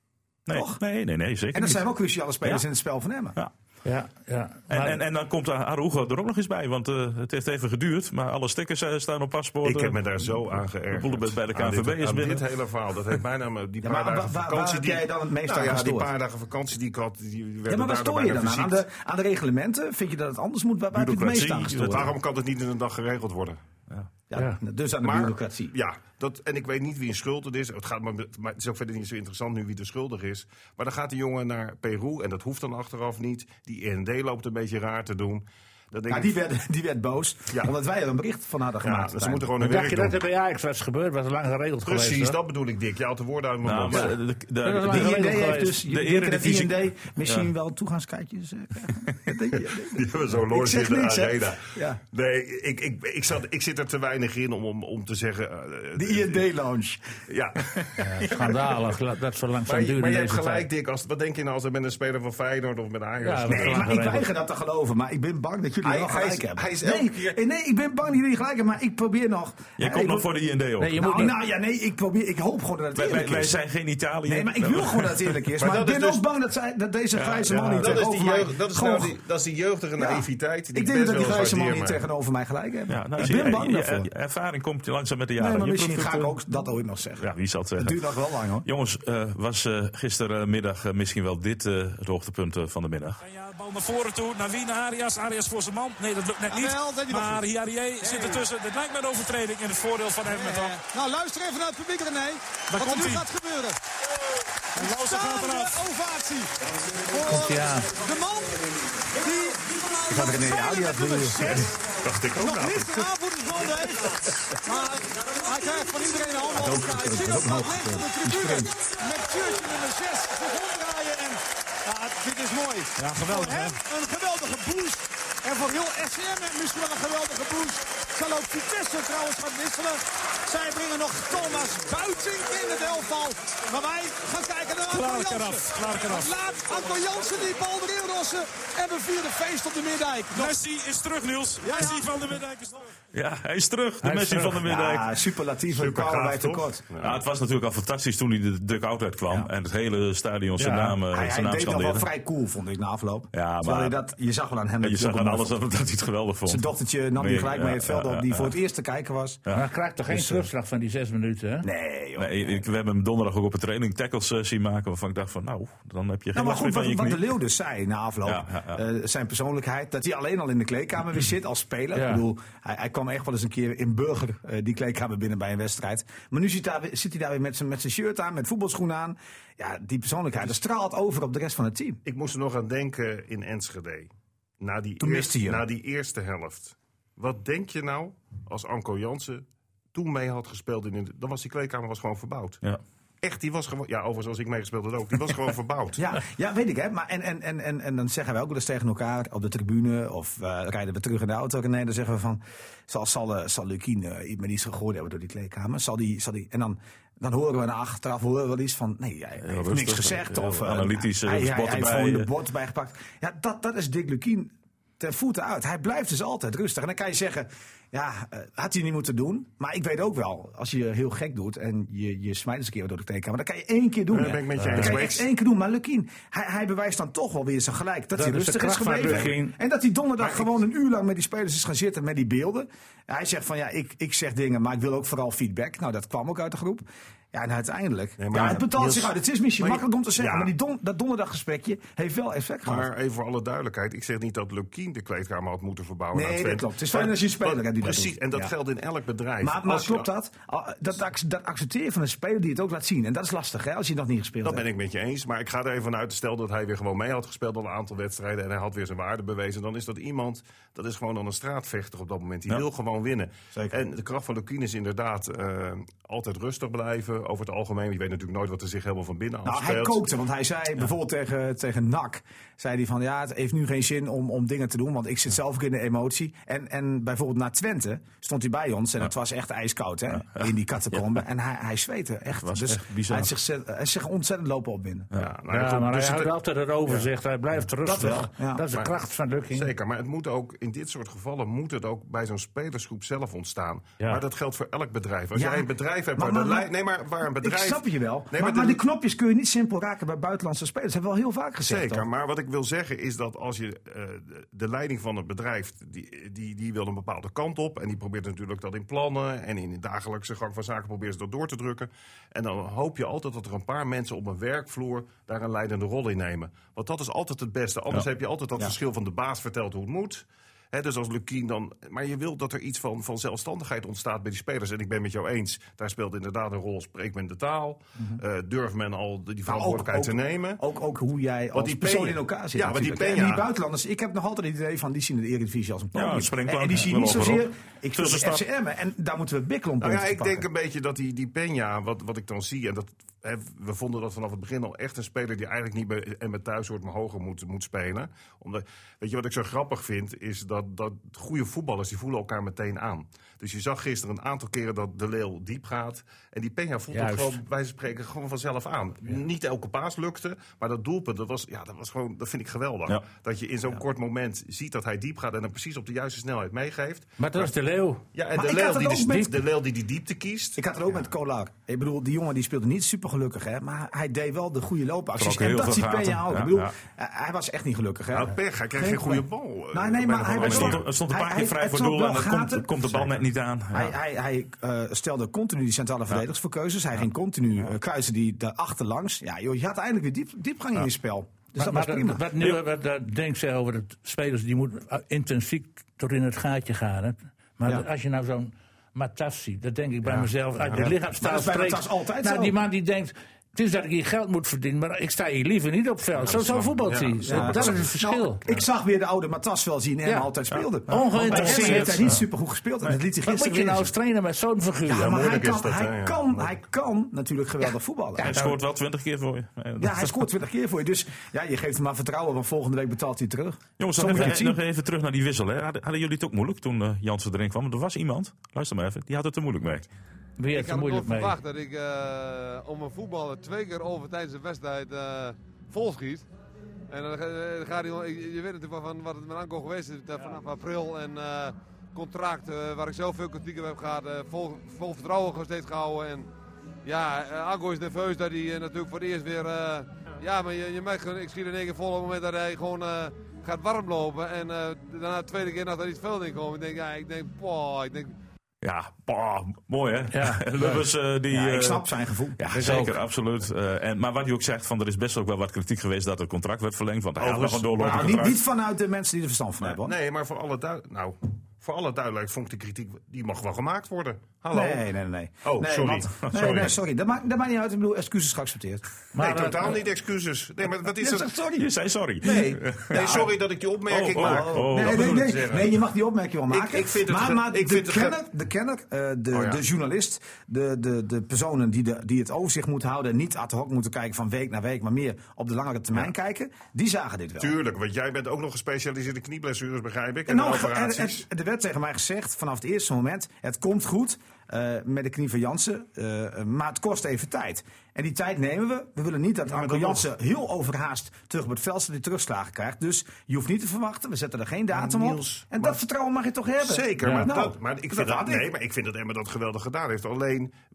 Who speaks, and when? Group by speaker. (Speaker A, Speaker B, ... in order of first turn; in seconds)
Speaker A: 0.5-1.8, 4.7-12.4, 20.9-22.1, 43.6-47.5, 69.8-71.1, 72.9-75.4, 77.1-78.0, 82.9-86.3, 87.2-88.0, 88.6-93.2, 143.1-145.0, 147.0-152.0, 153.3-154.0, 154.8-156.6, 157.2-158.5, 162.2-167.2, 168.2-168.8, 209.4-212.3, 282.4-283.3, 335.9-338.4, 375.2-376.7, 380.4-383.9, 410.5-412.2, 418.2-420.2, 423.8-429.9, 458.6-461.8, 462.4-468.4, 476.3-476.7, 481.6-483.3, 483.9-485.2
Speaker B: 0.5-0.8, 1.5-3.4, 13.8-16.1, 17.7-22.1, 24.3-25.7, 36.1-39.6, 44.8-52.0, 56.0-57.0, 63.5-70.3, 70.9-73.6, 74.2-79.1, 80.0-84.1, 85.4-88.7, 110.1-111.7, 116.5-118.7, 144.6-146.8, 151.1-155.6, 156.4-159.4, 160.1-160.5, 161.6-162.7, 166.3-182.0, 185.0-185.6, 195.9-242.9, 246.1-248.5, 249.4-254.7, 269.4-285.1, 287.8-288.6, 295.3-296.7, 297.4-302.0, 329.4-340.4, 368.3-369.3, 370.6-383.1, 383.7-392.3, 400.7-402.6, 407.2-413.9, 414.9-418.4, 419.8-424.6, 461.3-462.8, 467.8-469.9, 474.5-478.9, 480.9-481.7, 482.2-483.3, 484.1-497.6, 500.3-518.5
Speaker C: 3.8-5.0, 39.6-42.4, 44.6-45.8, 58.0-60.7, 63.2-64.3, 70.8-71.3, 107.2-107.9, 144.0-144.7, 150.6-151.0, 159.5-161.7, 171.9-172.2, 228.1-229.5, 285.5-289.7, 356.9-357.4, 367.2-368.0, 391.6-408.4, 410.0-410.3, 410.9-412.2, 413.2-415.3, 418.2-418.6, 430.4-431.4, 460.1-460.8, 462.5-462.9, 479.1-479.8
Speaker D: 9.6-18.8, 21.7-23.6, 25.0-36.4, 38.8-40.2, 41.8-44.2, 49.9-56.4, 57.3-58.6, 59.6-63.9, 65.8-67.4, 75.6-76.2, 77.5-82.0, 112.0-113.0, 145.7-147.2, 182.0-192.6, 193.2-196.0, 224.1-225.2, 229.0-229.3, 230.2-230.5, 238.2-240.5, 242.7-250.1, 254.4-270.1, 285.1-286.3, 289.5-298.8, 301.6-330.6, 331.5-333.5, 339.8-367.5, 368.1-370.6, 378.1-380.9, 406.2-407.8, 414.9-416.5, 467.2-468.3, 469.6-474.8, 475.4-476.7, 479.2-481.3, 482.2-485.8, 486.5-488.2, 489.3-489.6, 497.4-501.2, 509.5-510.0, 514.7-515.8, 516.6-520.5
Speaker E: 93.2-100.8, 102.7-103.3, 104.7-105.8, 123.0-123.8, 134.9-136.3, 140.3-142.8
Speaker F: 96.5-97.4, 98.0-98.4, 100.3-103.8, 104.8-111.7, 112.3-140.6, 141.6-142.4
Speaker G: 430.5-436.3, 436.9-446.3, 446.8-458.1